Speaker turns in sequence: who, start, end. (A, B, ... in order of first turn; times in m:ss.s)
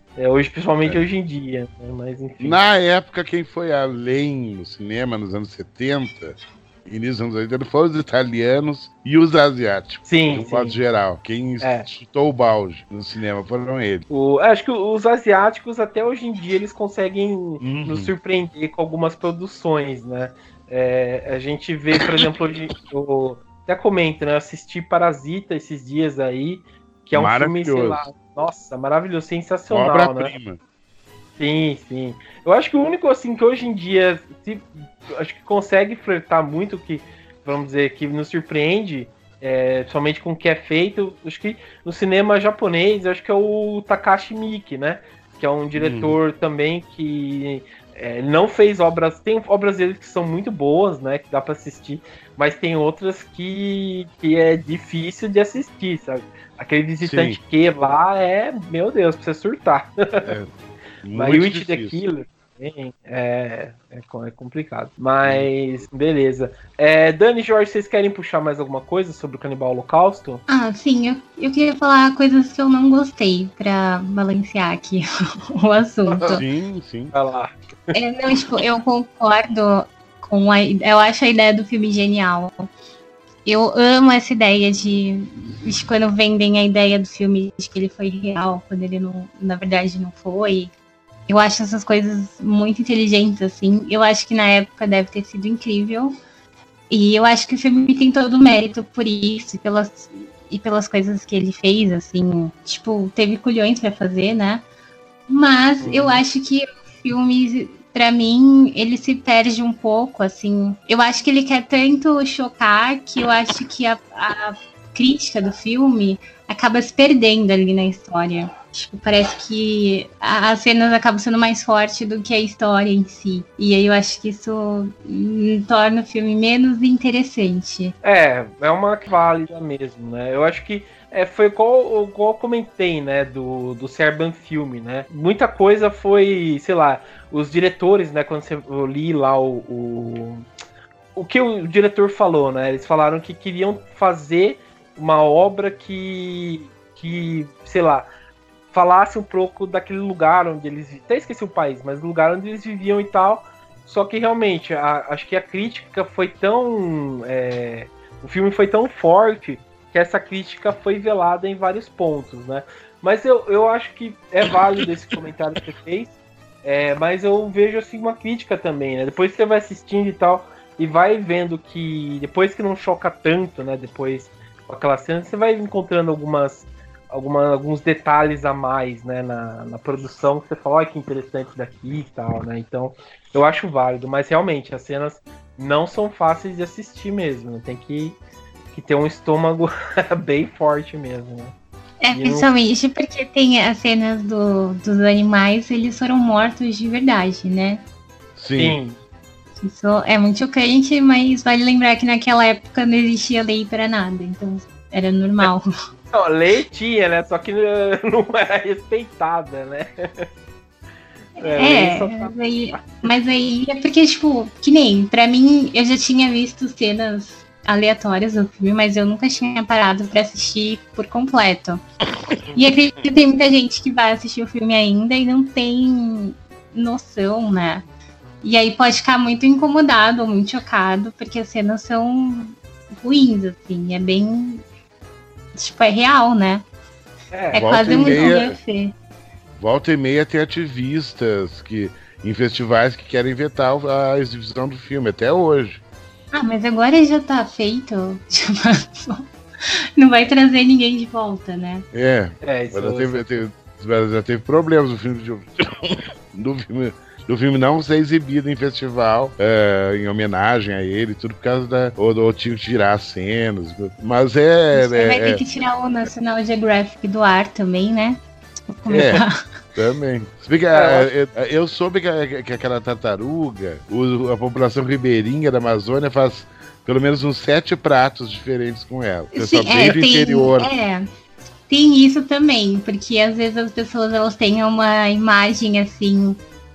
0:00.2-0:02.6 A
0:02.4-0:14.0 B
0:10.0-0:10.8 A
0:11.6-0:11.9 A
0:14.1-0:30.3 A
0:17.6-0:18.1 B
0:27.1-0:28.0 B
0:29.7-0:30.6 B
0:31.4-1:00.3 A
0:45.7-0:46.2 B
0:57.0-0:57.4 B
1:00.2-1:00.5 B
1:01.0-1:02.0 B
1:01.1-1:10.4 A
1:05.2-1:05.5 B
1:10.5-1:16.4 C
1:16.1-1:16.4 A
1:16.3-1:17.1 B
1:17.1-1:17.9 A
1:17.9-1:22.7 C
1:23.4-1:30.7 C
1:31.3-1:36.2 C
1:36.9-1:44.6 C
1:45.3-2:07.9 C
1:45.8-1:46.2 A
2:08.0-2:20.4 A
2:21.2-2:28.1 A
2:28.7-2:46.1 A
2:46.6-3:08.2 A
3:08.7-3:11.5 A
3:12.0-3:17.8 C
3:12.1-3:12.5 A
3:18.4-3:18.8 B
3:18.6-3:19.0 A
3:19.6-3:25.7 C
3:26.1-3:30.3 A
3:31.4-3:32.3 A
3:31.4-3:41.8 C
3:42.5-3:42.7 A
3:42.5-3:47.8 C
3:48.4-3:54.6 C
3:55.5-3:56.6 C
3:57.3-3:58.4 A
3:57.5-3:58.9 C
3:57.5-3:58.6 B
3:59.6-4:05.8 B
4:06.3-4:09.3 C
4:10.0-4:11.8 C
4:11.9-4:25.4 B
4:12.4-4:13.4 A
4:24.7-4:29.4 C
4:28.9-4:29.2 B
4:29.8-4:40.7 B
4:30.7-4:31.1 A
4:39.3-4:41.1 C
4:41.7-4:46.4 C